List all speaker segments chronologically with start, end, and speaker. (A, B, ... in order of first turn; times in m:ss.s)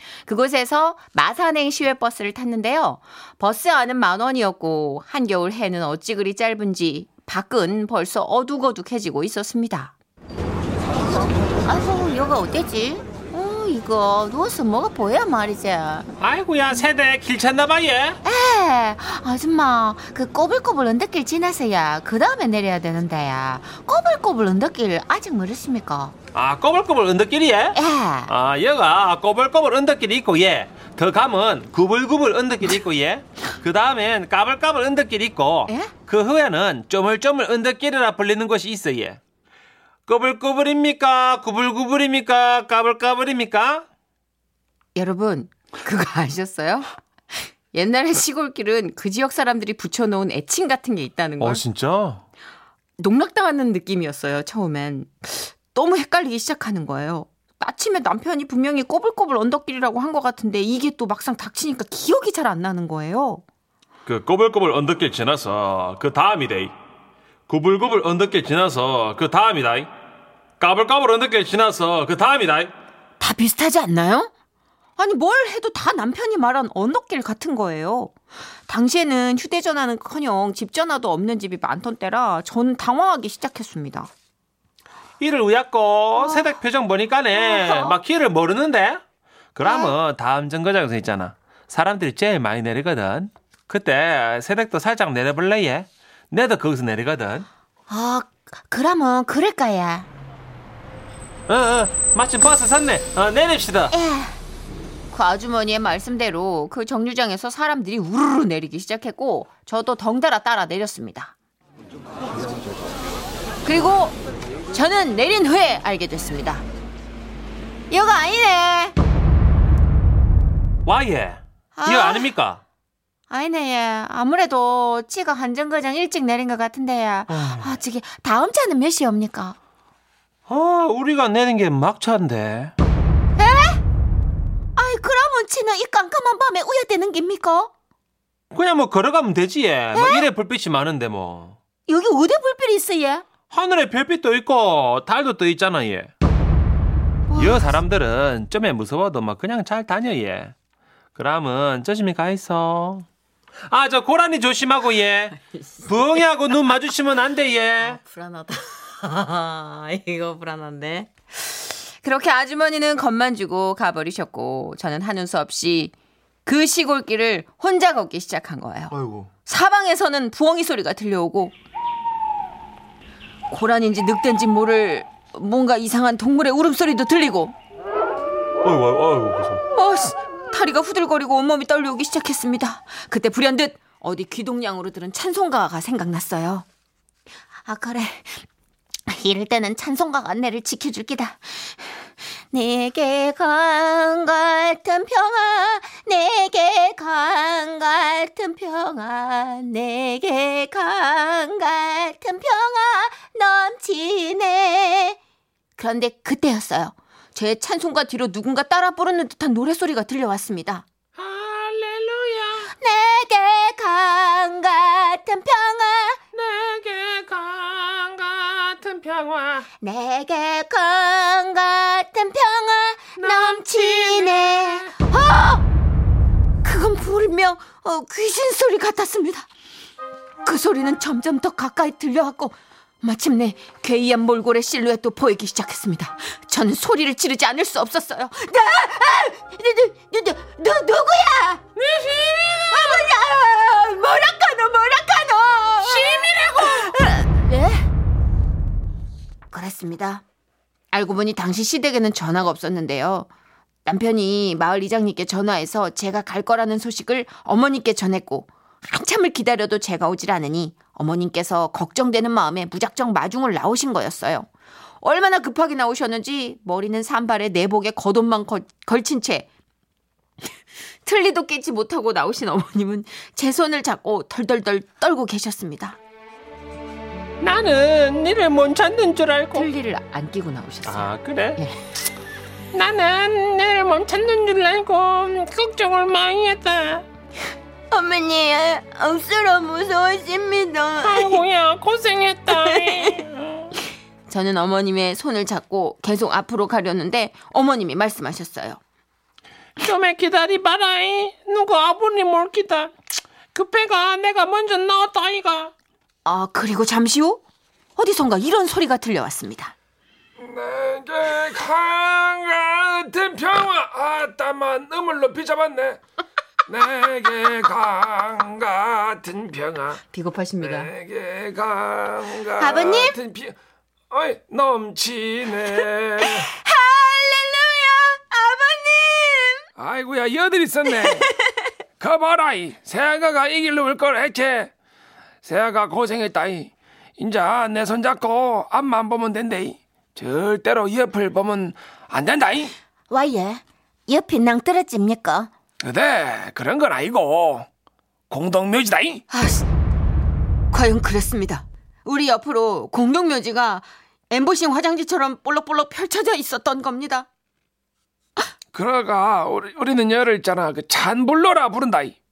0:00.2-0:09.9 A
0:11.1-0:16.1 A
0:16.2-0:18.2 B
0:18.2-0:26.1 A
0:26.3-0:39.2 B
0:27.7-0:28.3 A
0:35.7-0:35.9 A
0:40.1-0:43.8 B
0:44.9-0:46.9 A
0:47.7-0:51.6 A
0:51.4-0:52.2 B
0:53.0-1:03.4 A
1:04.0-1:06.7 B
1:07.5-1:09.9 B
1:10.6-1:12.7 B
1:13.2-1:14.3 A
1:15.0-1:18.1 A
1:18.6-1:24.1 A
1:25.2-1:29.0 B
1:26.2-1:26.6 A
1:27.4-1:28.0 A
1:29.5-1:37.5 B
1:29.6-1:29.9 A
1:37.9-1:40.1 A
1:41.5-1:43.9 B
1:43.9-1:44.4 A
1:45.1-1:51.3 A
1:53.6-1:54.2 A
1:54.7-1:56.6 A
1:57.9-1:59.0 A
2:00.8-2:02.6 B
2:01.7-2:02.3 A
2:03.3-2:09.6 A
2:07.3-2:07.8 B
2:10.5-2:12.7 B
2:13.4-2:13.8 A
2:14.8-2:17.7 A
2:18.5-2:21.6 B
2:19.9-2:20.3 A
2:21.9-2:23.2 A
2:23.5-2:26.1 B
2:27.3-2:27.8 A
2:27.3-2:30.5 B
2:31.2-2:33.0 B
2:33.6-2:38.0 B
2:35.4-2:36.2 A
2:37.8-2:45.9 A
2:46.4-2:48.9 A
2:48.9-2:49.3 B
2:49.4-2:51.5 A
2:53.5-2:57.5 A
2:58.6-2:59.6 B
2:59.7-3:06.6 A
3:07.6-3:08.4 A
3:09.1-3:25.2 A
3:25.8-3:30.8 A
3:31.2-3:32.4 C
3:31.6-3:32.2 B
3:32.8-3:36.2 A
3:36.4-3:37.4 C
3:36.4-3:38.4 B
3:38.6-3:39.6 C
3:39.1-3:39.6 B
3:39.8-3:45.6 A
3:43.2-3:44.0 B
3:43.2-3:44.3 C
3:46.6-3:49.5 A
3:50.4-4:01.6 A
4:01.9-4:02.2 C
4:02.4-4:07.8 A
4:09.5-4:10.2 A
4:10.9-4:13.3 A
4:13.8-4:24.5 A
4:25.0-4:29.5 A
4:31.0-4:36.0 A
4:37.4-4:39.7 B
4:39.5-4:41.7 A
4:40.8-4:41.6 B
4:42.7-4:47.0 C
4:47.9-4:51.4 A
4:51.0-4:53.3 C
4:52.6-4:53.2 A
4:54.3-4:58.8 A
4:59.8-5:02.9 C
5:03.5-5:05.7 C
5:06.2-5:07.4 A
5:08.0-5:09.7 A
5:10.4-5:16.0 D
5:16.7-5:20.0 D
5:20.1-5:20.9 A
5:20.6-5:23.5 D
5:22.5-5:23.2 A
5:24.1-5:26.5 D
5:26.2-5:29.6 A
5:29.8-5:31.3 D
5:31.0-5:31.7 A
5:32.0-5:34.7 D
5:35.4-5:42.7 D
5:43.1-5:45.5 A
5:45.8-5:47.6 D
5:48.3-5:49.2 D
5:49.3-5:49.6 A
5:50.7-5:57.3 A
5:58.7-6:02.1 D